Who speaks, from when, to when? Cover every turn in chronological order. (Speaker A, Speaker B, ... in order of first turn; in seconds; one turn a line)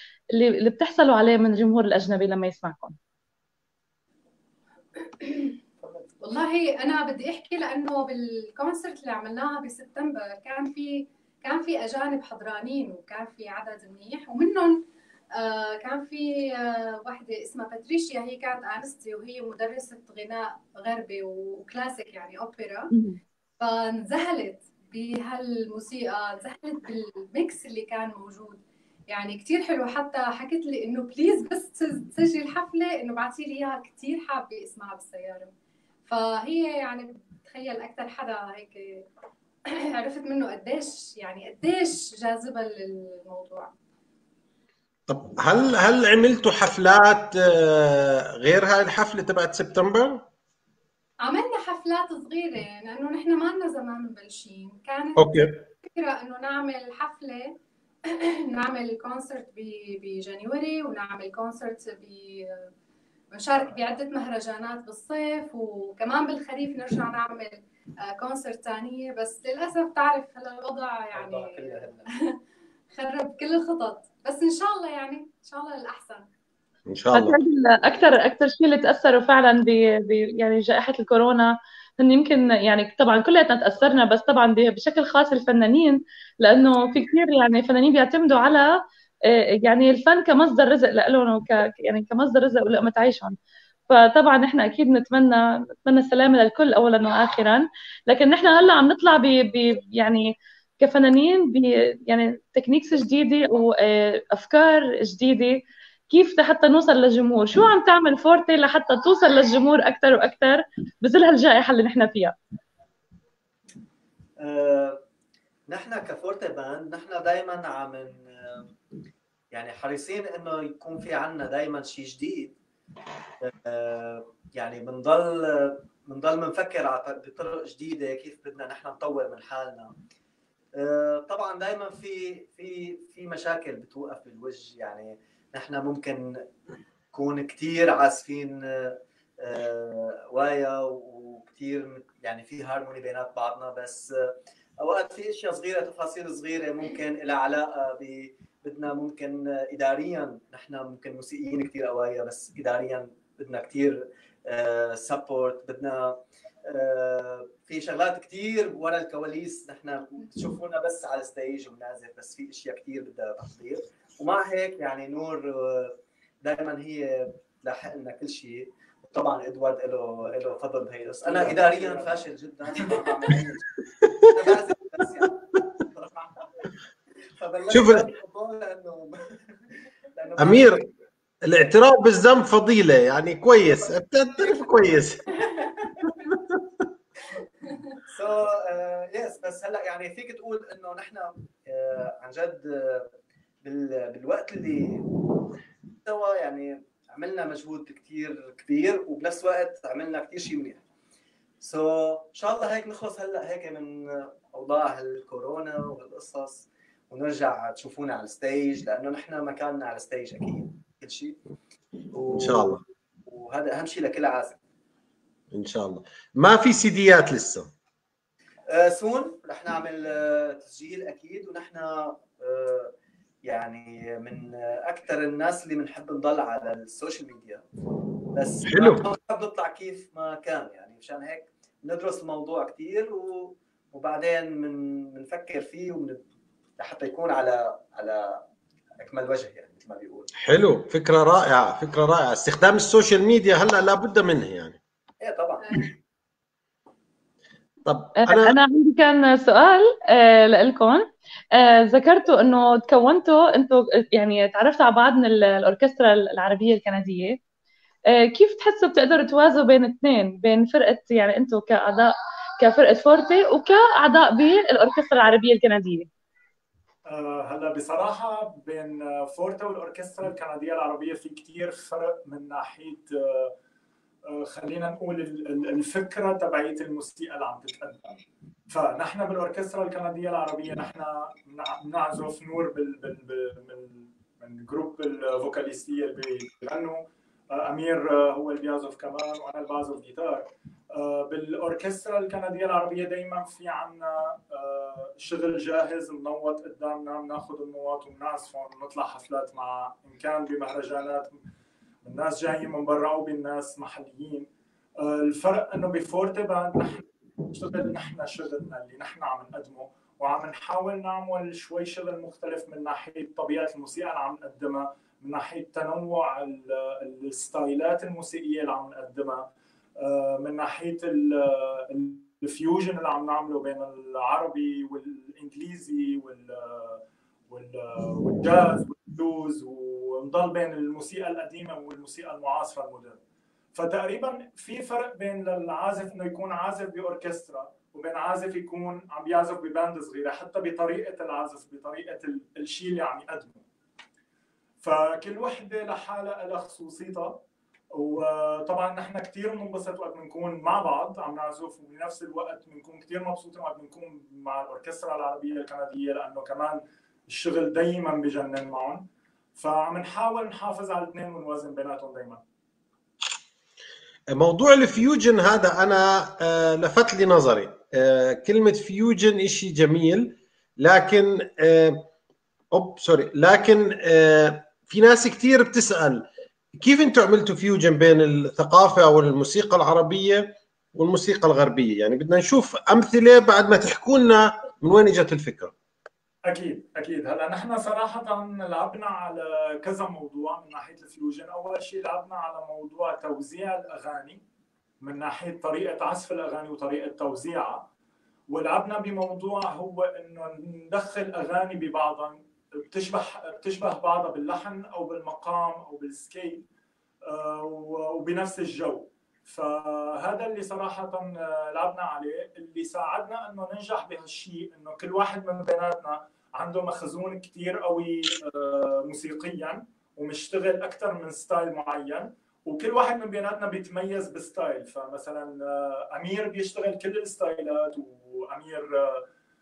Speaker A: 0.3-3.0
Speaker B: 5.2-5.5
Speaker B: 6.2-14.8
Speaker B: 15.3-22.9
Speaker A: 22.9-23.2
Speaker B: 23.6-35.5
Speaker B: 36.1-39.1
Speaker B: 39.9-43.7
Speaker C: 45.1-50.2
Speaker B: 51.2-62.7
Speaker C: 55.2-55.6
Speaker B: 63.3-72.4
Speaker D: 71.1-72.1
Speaker B: 72.9-76.3
Speaker C: 76.9-77.4
Speaker A: 77.1-88.7
Speaker A: 89.3-93.4
Speaker A: 93.9-100.3
Speaker A: 100.8-112.3
Speaker D: 114.4-115.0
Speaker D: 115.7-118.7
Speaker D: 119.5-122.5
Speaker D: 123.4-129.9
Speaker D: 130.8-136.4
Speaker D: 137.1-173.6
Speaker E: 171.2-172.1
Speaker C: 174.0-174.5
Speaker D: 174.3-176.5
Speaker D: 177.4-179.4
Speaker C: 177.7-178.1
Speaker D: 180.2-180.9
Speaker C: 180.4-180.8
Speaker C: 181.5-185.3
Speaker D: 185.5-186.0
Speaker D: 188.1-193.1
Speaker D: 193.6-195.1
Speaker D: 196.0-200.8
Speaker D: 201.6-211.4
Speaker D: 212.1-212.7
Speaker C: 212.3-212.8
Speaker D: 213.3-214.6
Speaker C: 215.5-217.7
Speaker D: 218.7-222.9
Speaker D: 223.4-227.6
Speaker D: 228.3-236.2
Speaker C: 228.7-229.0
Speaker D: 236.8-238.4
Speaker D: 239.0-240.3
Speaker C: 240.4-244.8
Speaker D: 245.2-245.8
Speaker C: 247.9-248.6
Speaker A: 248.2-257.4
Speaker A: 258.1-266.1
Speaker E: 267.1-273.5
Speaker E: 274.3-301.4
Speaker E: 302.0-333.2
Speaker E: 333.8-343.6
Speaker E: 344.8-347.4
Speaker E: 347.9-359.0
Speaker E: 359.6-362.4
Speaker C: 364.3-372.1
Speaker C: 372.7-385.7
Speaker E: 386.5-394.4
Speaker E: 395.0-397.8
Speaker E: 398.5-406.6
Speaker E: 407.3-429.3